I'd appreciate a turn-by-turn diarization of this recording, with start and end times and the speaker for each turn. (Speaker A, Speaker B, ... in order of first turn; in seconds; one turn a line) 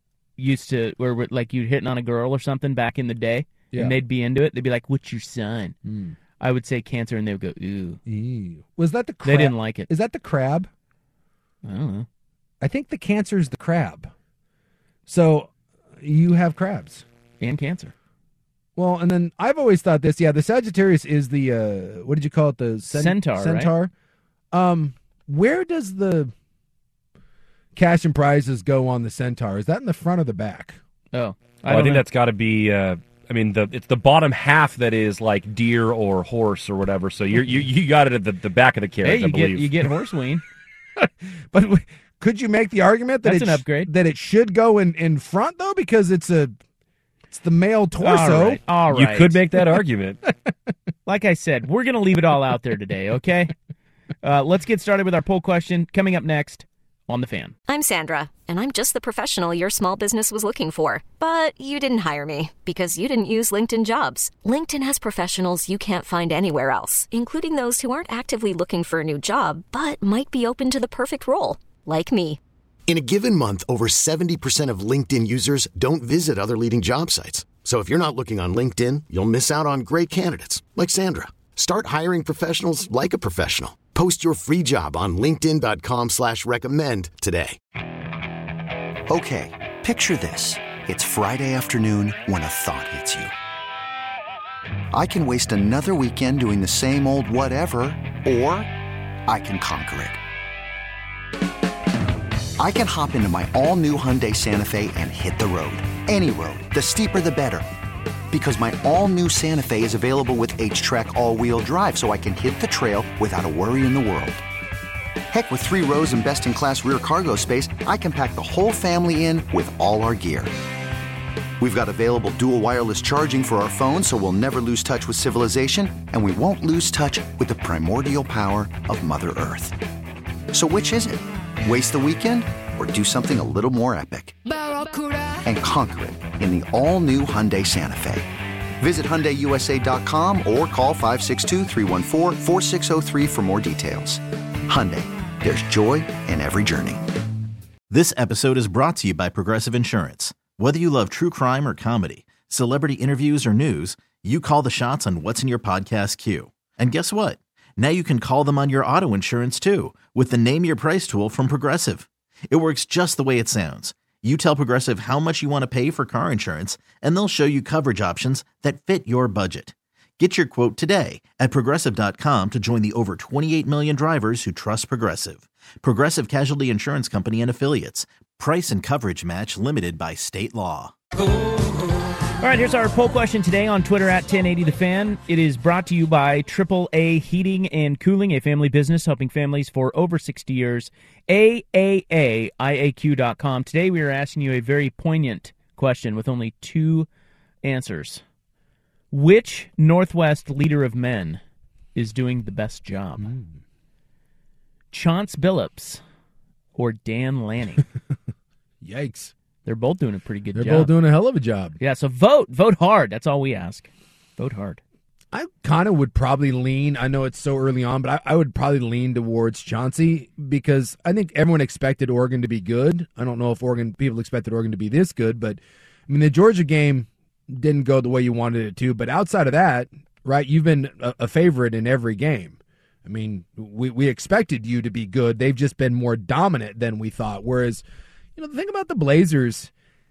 Speaker A: 0.4-5.8
Speaker B: 5.8-6.2
Speaker A: 6.4-8.0
Speaker B: 8.1-10.7
Speaker A: 9.2-9.9
Speaker A: 11.6-12.1
Speaker B: 12.6-14.1
Speaker B: 15.1-17.0
Speaker A: 17.4-17.9
Speaker B: 18.8-23.9
Speaker A: 22.9-23.7
Speaker B: 24.5-26.3
Speaker B: 27.8-30.8
Speaker A: 31.1-32.0
Speaker C: 31.7-39.8
Speaker A: 39.0-40.4
Speaker B: 41.0-46.5
Speaker A: 43.2-43.9
Speaker B: 47.3-48.6
Speaker A: 48.0-49.4
Speaker C: 48.9-50.2
Speaker A: 51.1-53.5
Speaker A: 54.2-57.6
Speaker D: 57.7-72.4
Speaker E: 72.9-87.6
Speaker F: 89.1-93.3
Speaker F: 94.9-98.7
Speaker F: 99.3-100.2
Speaker F: 102.6-107.7
Speaker F: 108.3-114.4
Speaker F: 115.3-120.5
Speaker F: 121.6-129.8
Speaker F: 130.5-134.4
Speaker F: 135.3-138.3
Speaker F: 138.8-147.0
Speaker G: 147.9-180.9
Speaker A: 182.4-197.1
Speaker A: 197.6-198.2
Speaker A: 199.1-201.4
Speaker A: 201.9-203.3
Speaker B: 203.2-203.6
Speaker A: 204.9-206.0
Speaker A: 206.8-207.8
Speaker B: 208.8-209.3
Speaker A: 209.7-210.9
Speaker B: 210.5-211.8
Speaker A: 211.8-214.8
Speaker B: 215.3-237.8
Speaker B: 238.4-239.7